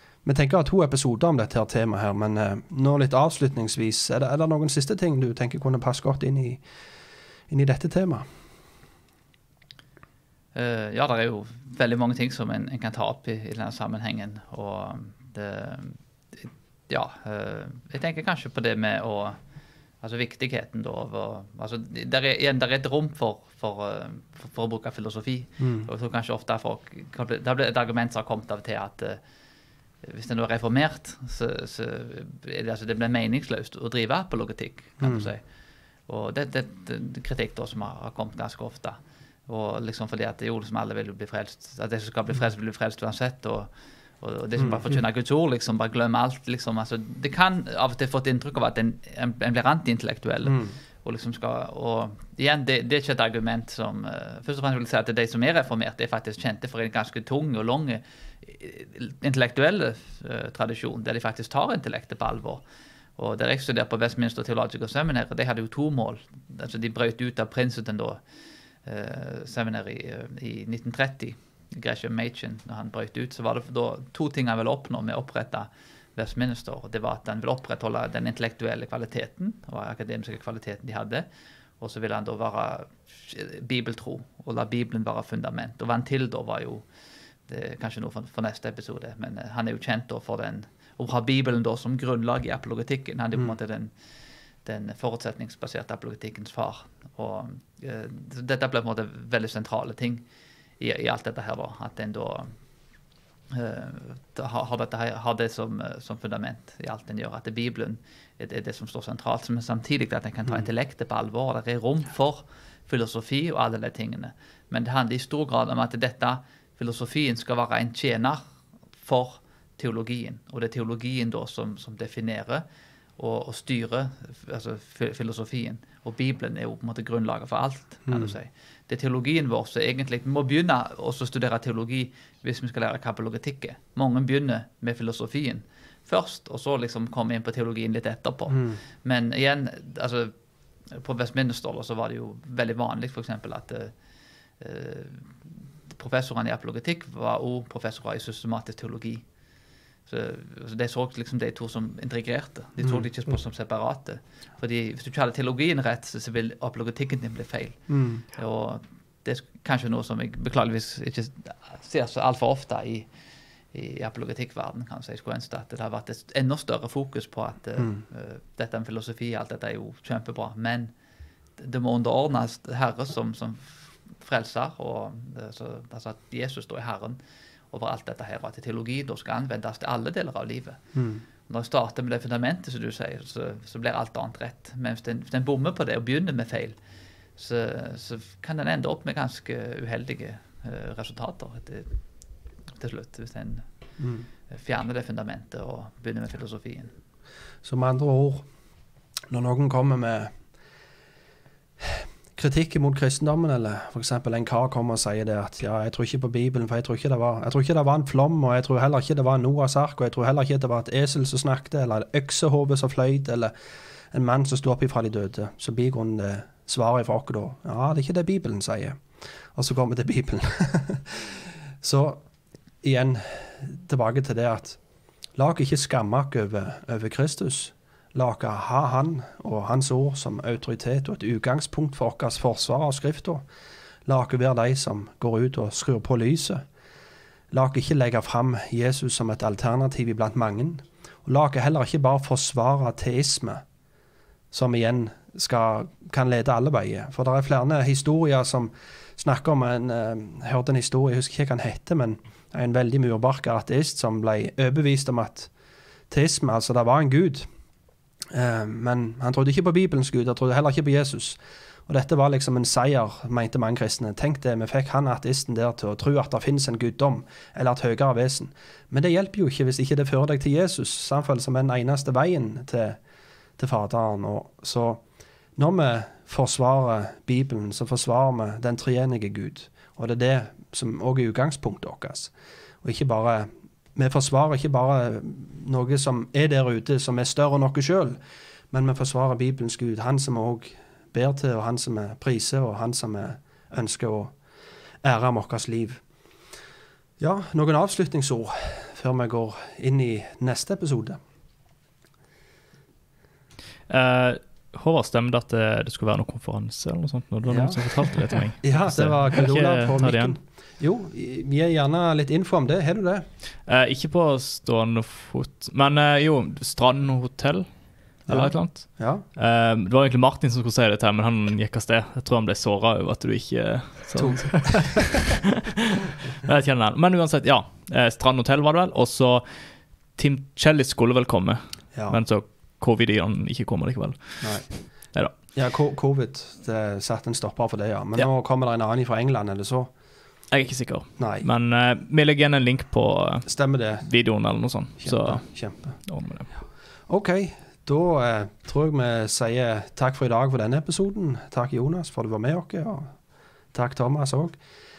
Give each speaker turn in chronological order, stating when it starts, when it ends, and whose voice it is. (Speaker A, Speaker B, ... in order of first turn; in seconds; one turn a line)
Speaker A: 0.2-6.6
Speaker A: 7.5-8.2
Speaker B: 10.5-19.4
Speaker B: 20.0-29.2
Speaker A: 25.6-25.9
Speaker B: 30.0-35.4
Speaker A: 35.0-35.3
Speaker B: 36.1-43.7
Speaker B: 44.2-62.6
Speaker A: 44.6-45.0
Speaker A: 50.4-50.7
Speaker B: 63.2-68.2
Speaker B: 68.8-81.3
Speaker B: 81.8-86.8
Speaker B: 87.5-93.9
Speaker B: 94.6-100.2
Speaker B: 100.8-102.5
Speaker B: 103.5-118.4
Speaker B: 119.0-122.6
Speaker B: 123.2-140.3
Speaker A: 128.1-128.3
Speaker A: 138.5-138.8
Speaker B: 140.9-143.9
Speaker B: 144.6-145.3
Speaker B: 145.9-149.2
Speaker B: 150.1-157.8
Speaker A: 157.9-158.2
Speaker B: 158.3-163.1
Speaker B: 163.7-170.9
Speaker A: 167.8-168.0
Speaker B: 171.6-177.2
Speaker B: 177.7-180.8
Speaker A: 180.9-181.2
Speaker B: 181.5-186.8
Speaker B: 187.4-191.9
Speaker B: 192.8-193.6
Speaker A: 194.0-194.3
Speaker B: 194.5-196.9
Speaker A: 197.6-198.4
Speaker A: 199.3-200.3
Speaker A: 201.8-213.5
Speaker A: 214.1-219.0
Speaker A: 219.5-222.2
Speaker A: 222.8-224.8
Speaker A: 225.3-233.4
Speaker A: 234.1-236.6
Speaker A: 237.5-243.6
Speaker A: 244.5-255.5
Speaker A: 256.1-257.5
Speaker A: 258.3-273.0
Speaker A: 273.6-275.0
Speaker A: 275.6-282.3
Speaker A: 282.8-288.2
Speaker A: 288.7-294.3
Speaker A: 295.0-296.0
Speaker A: 297.2-301.2
Speaker C: 303.9-310.4
Speaker A: 307.4-313.2
Speaker C: 313.6-329.5
Speaker A: 318.3-319.2
Speaker A: 324.1-325.1
Speaker C: 330.1-335.4
Speaker A: 331.9-332.2
Speaker A: 334.4-334.7
Speaker A: 335.5-339.9
Speaker C: 340.5-346.5
Speaker A: 341.2-341.5
Speaker A: 343.4-344.1
Speaker A: 345.0-346.0
Speaker A: 347.1-353.1
Speaker A: 353.7-354.6